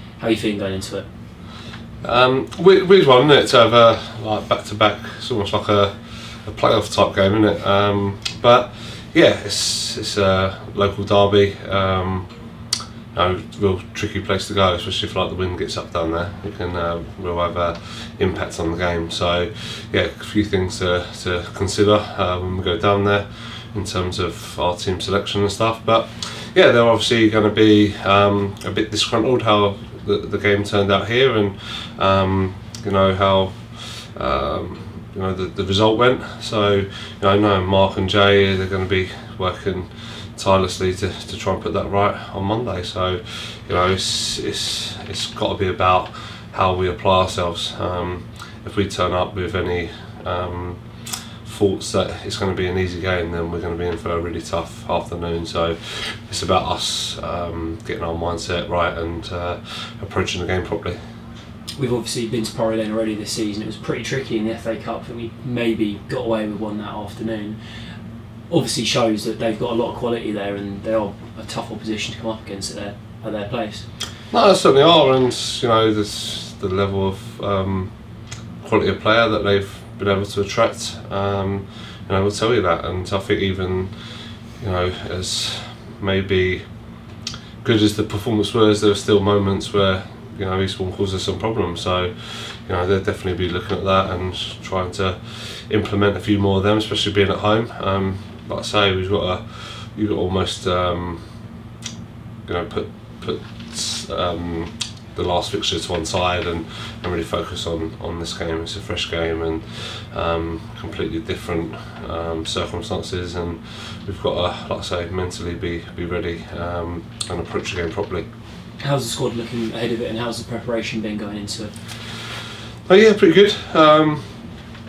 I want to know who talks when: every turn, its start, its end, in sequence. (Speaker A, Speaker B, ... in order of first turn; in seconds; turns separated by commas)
Speaker A: 0.2-1.0, Speaker B: 2.0-12.3, Speaker B: 13.1-61.0, Speaker A: 61.8-67.6, Speaker A: 68.5-73.8, Speaker B: 74.3-77.9, Speaker B: 78.6-86.7, Speaker B: 87.6-101.2, Speaker B: 102.4-118.2, Speaker A: 118.8-121.8, Speaker B: 122.8-124.4